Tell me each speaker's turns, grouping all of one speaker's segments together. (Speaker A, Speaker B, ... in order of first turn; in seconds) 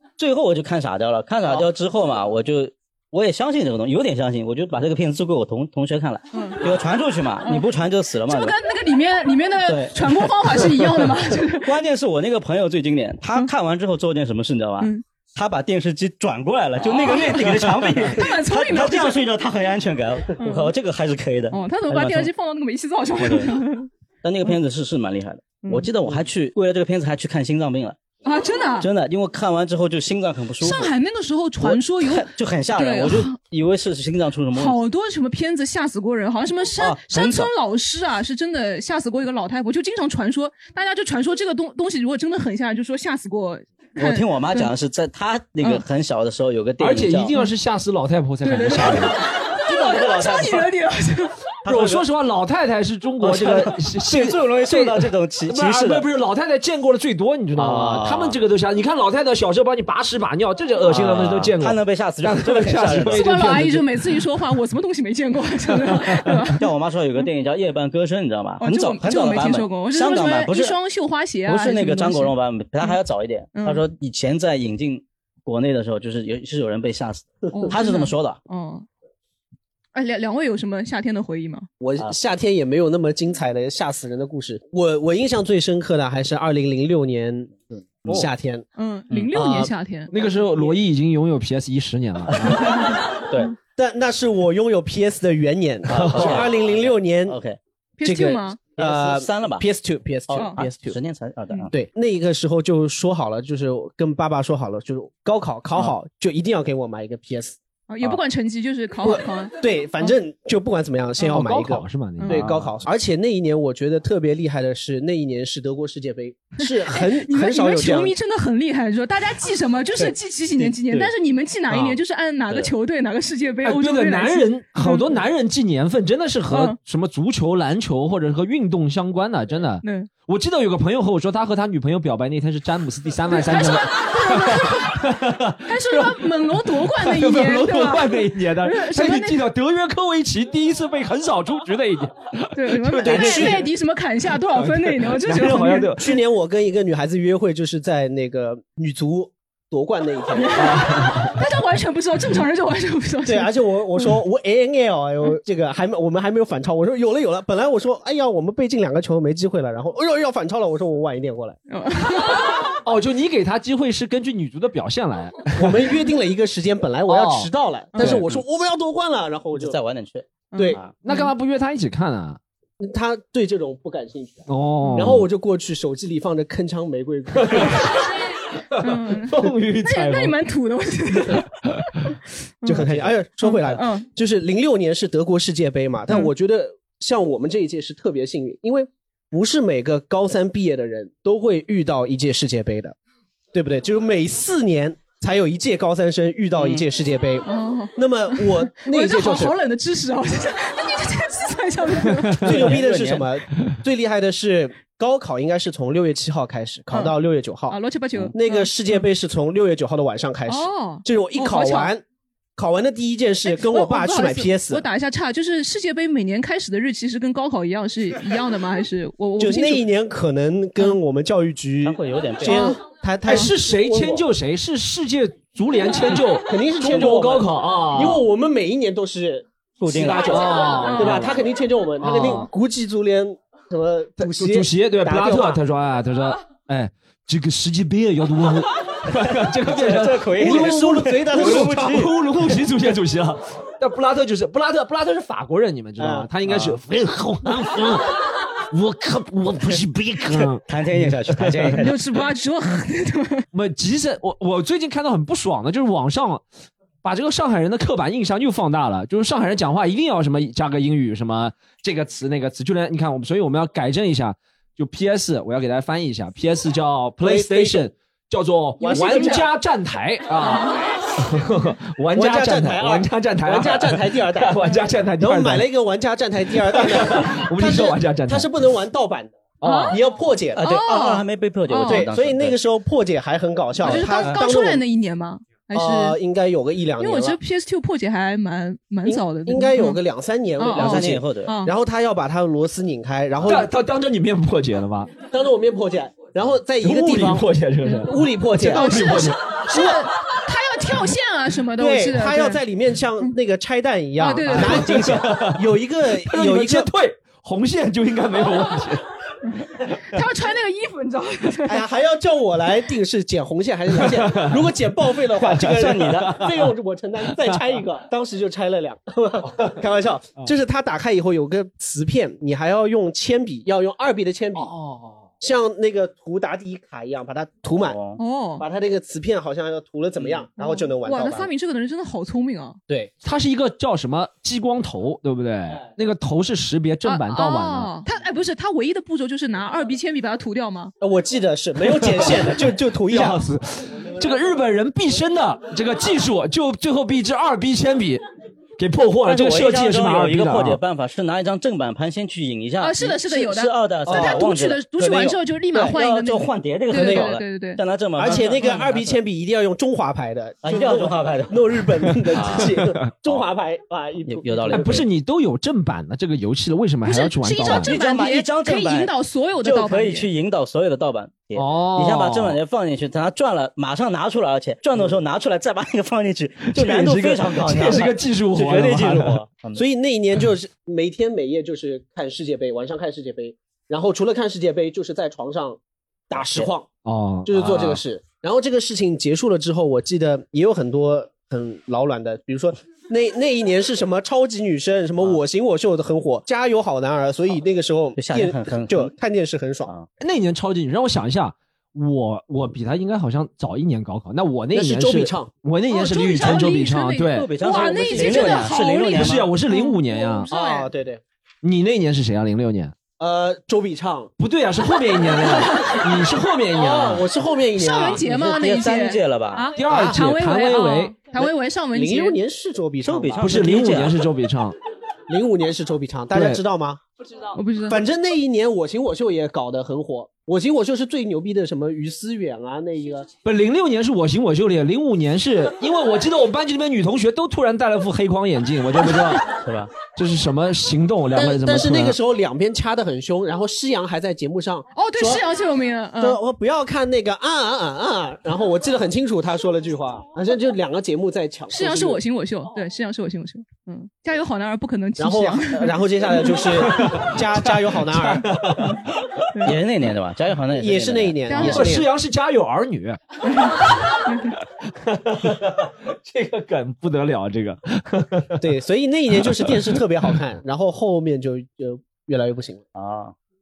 Speaker A: 0.2-8.6, 9.7-22.3, 23.2-23.6, 24.2-28.0, 28.8-30.9, 31.6-34.8, 36.8-37.5, 44.0-47.3, 49.6-50.7, 51.6-52.0, 53.2-56.1, 57.5-58.4, 60.8-63.4, 66.6-70.8, 71.5-78.4, 89.1-89.6, 92.3-92.6, 93.3-93.5, 95.9-97.6, 98.8-99.7, 100.3-101.7, 120.0-121.1, 121.7-122.0, 143.2-143.5, 169.6-170.9, 196.6-196.8, 202.4-203.3, 221.8-222.7, 229.8-231.2, 239.2-242.2, 246.5-246.8, 250.4-252.0, 280.5-282.6, 283.9-284.4, 290.7-291.5, 315.5-316.4, 327.8-328.2, 349.2-359.2, 360.6-361.6, 362.3-363.4, 364.3-365.1, 367.6-379.8, 386.4-386.7, 398.2-399.1, 407.3-409.5, 418.2-419.7, 423.0-424.3, 439.5-440.0, 459.6-461.4, 472.9-473.4
Speaker B: 6.3-6.6, 8.3-11.7, 16.8-19.2, 20.4-20.7, 21.5-23.9, 25.6-25.9, 28.2-28.9, 30.6-33.4, 34.5-44.7, 48.4-51.4, 63.1-66.7, 68.6-73.0, 73.5-73.8, 77.5-78.9, 79.9-81.7, 88.8-90.1, 98.0-98.6, 100.4-100.6, 107.9-110.1, 112.2-112.4, 116.6-125.1, 126.5-126.8, 129.8-130.1, 133.3-135.1, 135.7-139.4, 142.5-145.9, 150.3-154.1, 161.7-162.7, 167.9-168.2, 170.5-171.3, 174.8-175.2, 178.8-181.5, 183.4-184.1, 197.5-202.7, 207.7-209.1, 210.5-211.9, 213.4-219.9, 222.4-223.5, 230.3-231.2, 251.8-253.5, 268.9-269.3, 279.6-280.0, 280.6-282.1, 283.8-286.2, 287.0-290.0, 290.6-291.7, 298.7-302.6, 304.2-304.9, 310.0-311.8, 328.2-328.6, 330.6-332.8, 337.1-340.9, 352.8-357.8, 367.1-370.3, 405.9-410.9, 415.6-416.0, 417.8-422.4, 427.5-428.0, 444.9-446.4, 451.7-456.6, 461.5-461.9, 464.3-464.5
Speaker C: 46.8-49.1, 51.7-64.0, 65.7-66.5, 90.1-92.7, 96.0-96.4, 111.2-112.6, 123.6-143.6, 144.5-146.2, 150.6-151.3, 162.8-165.8, 167.1-167.5, 168.0-168.3, 171.0-172.4, 174.5-175.3, 177.4-177.7, 178.8-180.4, 223.3-228.2, 229.9-231.4, 232.0-232.5, 234.2-248.2, 248.7-251.8, 253.5-256.4, 257.0-275.7, 276.7-278.5, 279.6-280.0, 293.4-295.1, 296.8-299.4, 304.5-305.7, 306.2-309.0, 314.0-314.6, 315.4-316.7, 324.6-325.3, 333.2-337.9, 341.9-348.2, 348.8-350.8, 364.7-367.9, 371.6-372.6, 376.7-379.4, 387.1-388.0, 400.2-410.5, 411.6-412.9, 414.4-417.3, 419.8-421.2, 423.4-424.8, 426.3-426.6, 433.4-439.5, 440.1-442.2, 456.8-459.0, 461.5-463.2, 464.9-468.7, 469.4-470.0
Speaker D: 81.8-88.7, 89.3-89.7, 93.8-97.4, 98.0-101.0, 101.7-107.6, 109.0-118.2, 143.0-143.6, 145.9-150.9, 153.2-161.6, 165.6-169.8, 170.6-170.8, 172.8-177.9, 182.7-193.0, 193.5-199.6, 202.4-207.8, 208.3-212.0, 212.6-214.8, 219.4-224.3, 226.4-235.6, 240.3-242.1, 246.0-246.3, 267.2-267.9, 268.8-269.5, 272.1-280.6, 281.8-284.8, 285.7-287.4, 289.1-293.7, 295.3-299.9, 301.8-306.9, 311.7-324.7, 325.4-328.0, 328.6-331.5, 341.0-343.4, 354.1-354.4, 356.9-357.4, 358.2-365.1, 379.8-385.8, 386.3-386.9, 387.4-399.9, 404.7-405.5, 410.5-411.2, 413.2-414.3, 416.7-418.2, 419.9-420.2, 421.3-423.7, 425.3-427.0, 427.9-433.3, 441.3-445.4, 446.2-452.2, 455.2-458.6, 460.8-462.1, 468.6-472.8